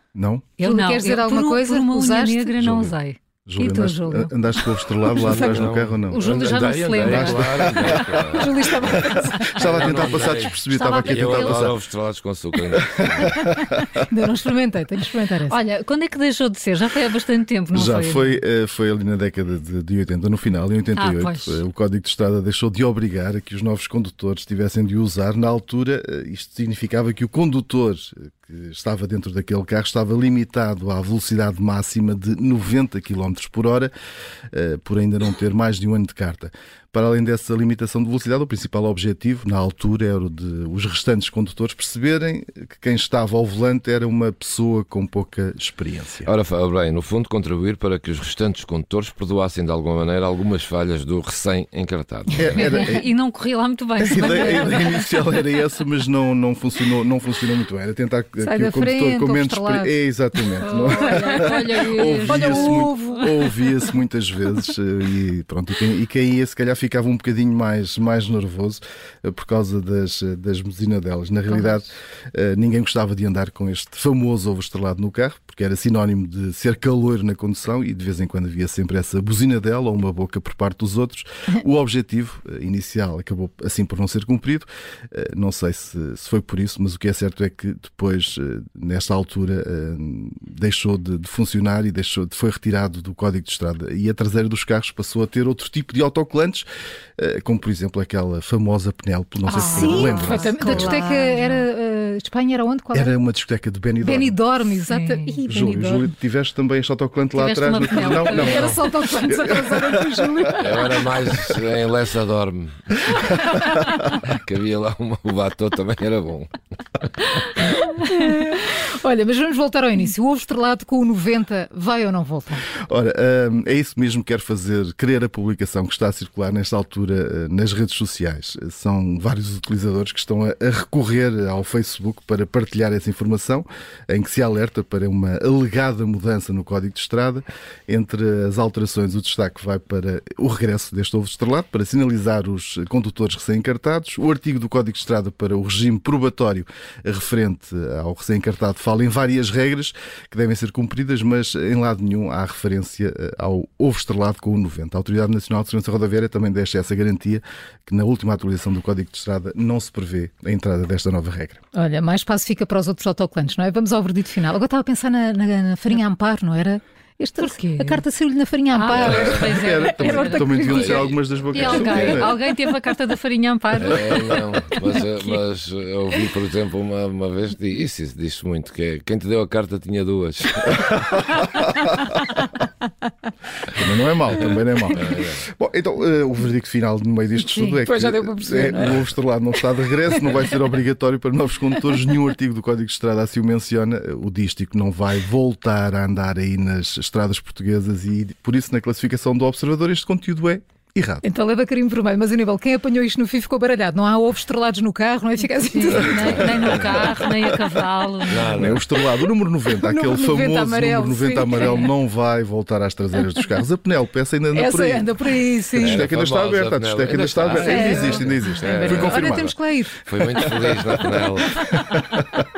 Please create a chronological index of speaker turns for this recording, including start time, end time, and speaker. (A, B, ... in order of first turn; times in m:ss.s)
0:00.1-0:00.5 A
0:00.6-0:03.9 B
0:00.6-0:02.5 C
0:02.6-0:06.4 A
0:03.8-0:04.3 C
0:05.2-0:09.0 D
0:06.1-0:08.0 B
0:06.9-0:11.8 A
0:08.2-0:09.5 C
0:09.3-0:09.6 B
0:09.6-0:13.5 D
0:10.7-0:11.7 B
0:12.7-0:13.9 A
0:14.0-0:15.6 C
0:15.5-0:18.4 B
0:17.7-0:33.9 A
0:21.0-0:21.6 B
0:34.5-0:46.3 A
0:46.3-0:52.7 D
0:52.4-0:53.1 A
0:52.6-0:55.1 B
0:54.0-1:36.7 A
0:58.4-1:03.3 C
1:00.6-1:03.2 B
1:37.2-1:41.0 A
1:39.5-1:41.7 B
1:39.5-1:43.1 C
1:42.9-1:44.4 A
1:44.0-1:46.1 C
1:44.7-1:45.4 B
1:45.5-1:50.6 A
1:47.3-1:48.9 B
1:47.9-1:51.0 C
1:50.6-1:57.1 D
1:57.6-2:02.7 C
2:02.9-2:41.6 A
2:41.7-2:51.0 C
2:47.4-2:48.0 B
2:48.7-2:55.4 B
2:49.0-2:49.5 D
2:49.0-2:52.4 A
2:50.6-2:52.3 D
2:51.6-2:52.1 C
2:53.8-3:01.2 D
3:03.7-3:21.2 A
3:04.9-3:05.4 D
3:07.6-3:09.1 C
3:21.2-3:27.6 C
3:25.6-3:28.7 B
3:26.1-3:27.0 D
3:28.3-3:28.9 D
3:28.5-3:39.5 A
3:29.8-3:31.9 C
3:34.5-3:36.1 C
3:35.8-3:39.5 D
3:37.6-3:40.5 C
3:40.1-3:41.6 D